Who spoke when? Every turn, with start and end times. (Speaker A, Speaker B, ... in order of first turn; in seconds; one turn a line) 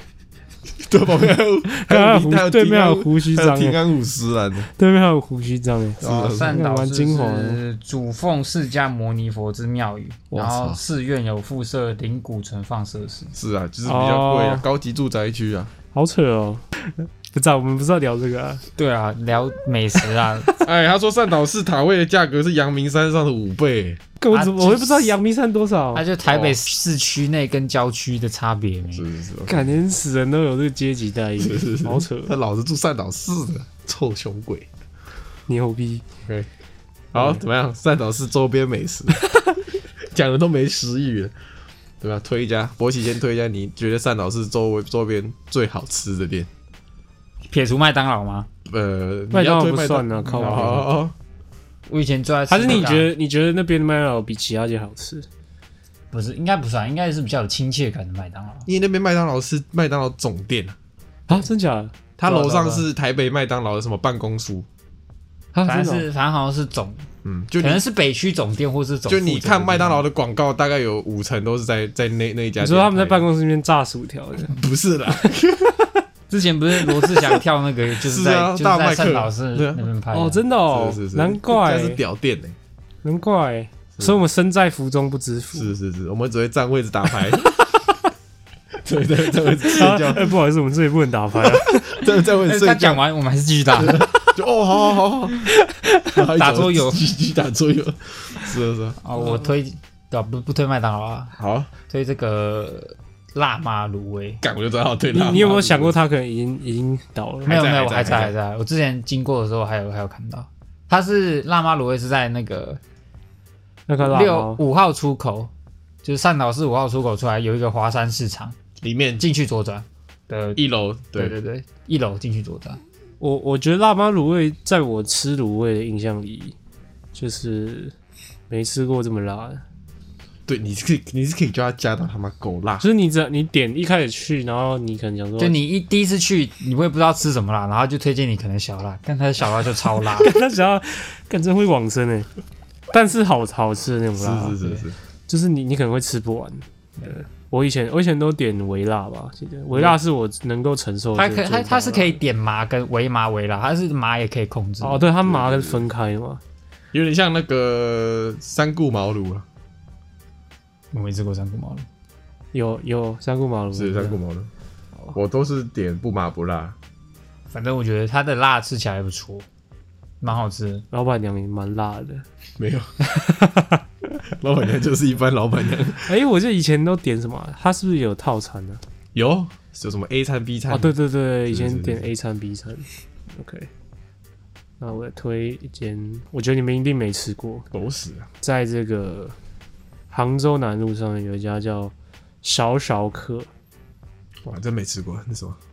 Speaker A: 0.8-4.7
Speaker B: 1.7-3.8
Speaker B: 4.8-7.6
Speaker A: 6.0-6.6
Speaker C: 6.0-13.3
Speaker A: 10.3-10.8
Speaker A: 13.3-15.7
Speaker B: 13.9-14.7
Speaker B: 15.9-18.6
Speaker C: 18.8-20.6
Speaker A: 20.6-24.0
Speaker B: 24.2-26.1
Speaker C: 24.3-25.1
Speaker C: 25.9-29.1
Speaker A: 26.3-26.6
Speaker A: 28.9-29.7
Speaker B: 29.5-32.4
Speaker A: 31.4-34.7
Speaker B: 35.5-36.0
Speaker A: 37.1-39.2
Speaker B: 37.1-37.4
Speaker B: 39.2-39.6
Speaker A: 40.1-41.3
Speaker A: 42.0-46.5
Speaker C: 47.5-48.5
Speaker A: 48.7-51.1
Speaker B: 49.3-50.9
Speaker C: 50.4-50.8
Speaker C: 51.9-53.1
Speaker B: 52.5-55.3
Speaker C: 56.1-58.7
Speaker A: 58.7-60.8
Speaker B: 61.3-61.9
Speaker A: 62.2-64.7
Speaker C: 62.3-62.9
Speaker C: 65.5-67.1
Speaker B: 65.6-66.1
Speaker A: 67.2-67.8
Speaker C: 67.6-70.1
Speaker A: 69.1-73.3
Speaker B: 72.6-74.6
Speaker A: 74.5-75.9
Speaker C: 76.3-80.4
Speaker A: 77.0-77.4
Speaker A: 78.0-79.9
Speaker B: 80.1-82.0
Speaker A: 80.7-82.5
Speaker B: 83.0-85.7
Speaker A: 85.5-87.6
Speaker A: 88.8-90.3
Speaker B: 89.6-92.0
Speaker A: 91.4-93.0
Speaker C: 92.4-94.1
Speaker A: 93.8-95.5
Speaker B: 95.5-96.1
Speaker A: 96.1-99.0
Speaker C: 96.3-97.1
Speaker C: 99.0-101.3
Speaker A: 101.4-101.7
Speaker C: 101.9-104.4
Speaker A: 104.4-106.0
Speaker B: 105.1-107.5
Speaker C: 107.5-112.8
Speaker A: 107.5-108.3
Speaker B: 113.9-114.6
Speaker C: 114.0-115.5
Speaker C: 116.0-118.6
Speaker A: 118.8-119.2
Speaker C: 119.2-120.6
Speaker A: 120.6-121.3
Speaker C: 121.1-122.8
Speaker B: 123.2-126.6
Speaker B: 127.1-127.9
Speaker B: 128.5-129.6
Speaker A: 130.5-132.8
Speaker B: 132.8-135.6
Speaker C: 135.4-140.3
Speaker B: 140.2-142.3
Speaker B: 142.9-144.6
Speaker A: 144.2-145.0
Speaker B: 145.3-152.2
Speaker C: 151.2-155.1
Speaker B: 154.8-156.4
Speaker A: 155.2-155.8
Speaker A: 156.9-159.4
Speaker C: 160.9-161.9
Speaker B: 162.5-164.2
Speaker A: 163.8-164.5
Speaker A: 165.1-166.8
Speaker C: 167.5-169.5
Speaker C: 170.2-170.8
Speaker B: 170.9-172.2
Speaker A: 172.6-172.9
Speaker B: 173.1-173.8
Speaker A: 174.4-176.1
Speaker B: 176.1-178.8
Speaker A: 179.2-181.0
Speaker B: 180.7-183.7
Speaker A: 181.5-182.1
Speaker B: 184.8-187.7
Speaker A: 187.7-188.3
Speaker B: 188.4-189.3
Speaker B: 190.1-193.5
Speaker A: 194.4-195.6